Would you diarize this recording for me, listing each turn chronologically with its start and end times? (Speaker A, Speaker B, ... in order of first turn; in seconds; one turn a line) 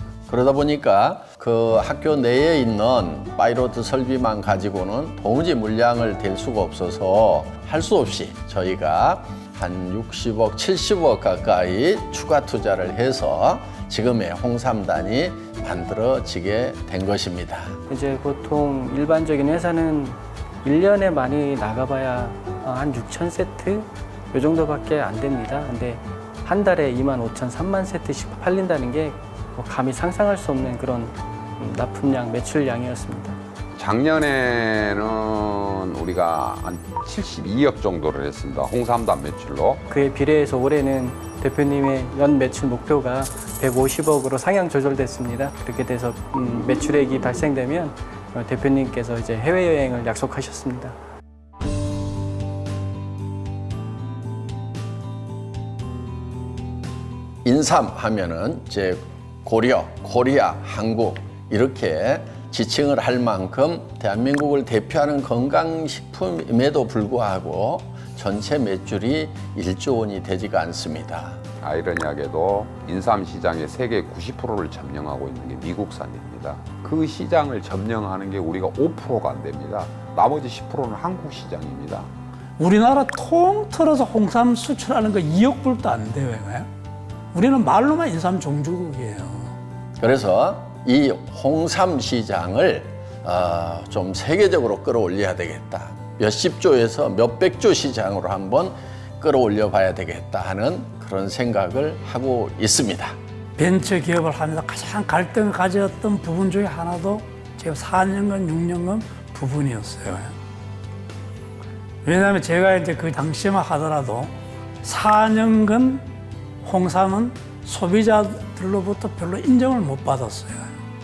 Speaker A: 0.3-17.8
Speaker B: 17.9-33.4
Speaker C: 33.8-39.8
Speaker B: 39.9-51.0
Speaker A: 57.4-71.4
Speaker C: 71.6-82.1
Speaker D: 82.6-86.7
Speaker D: 87.3-89.5
Speaker A: 90.0-103.1
Speaker D: 103.6-110.3
Speaker D: 112.0-116.1
Speaker D: 116.6-120.8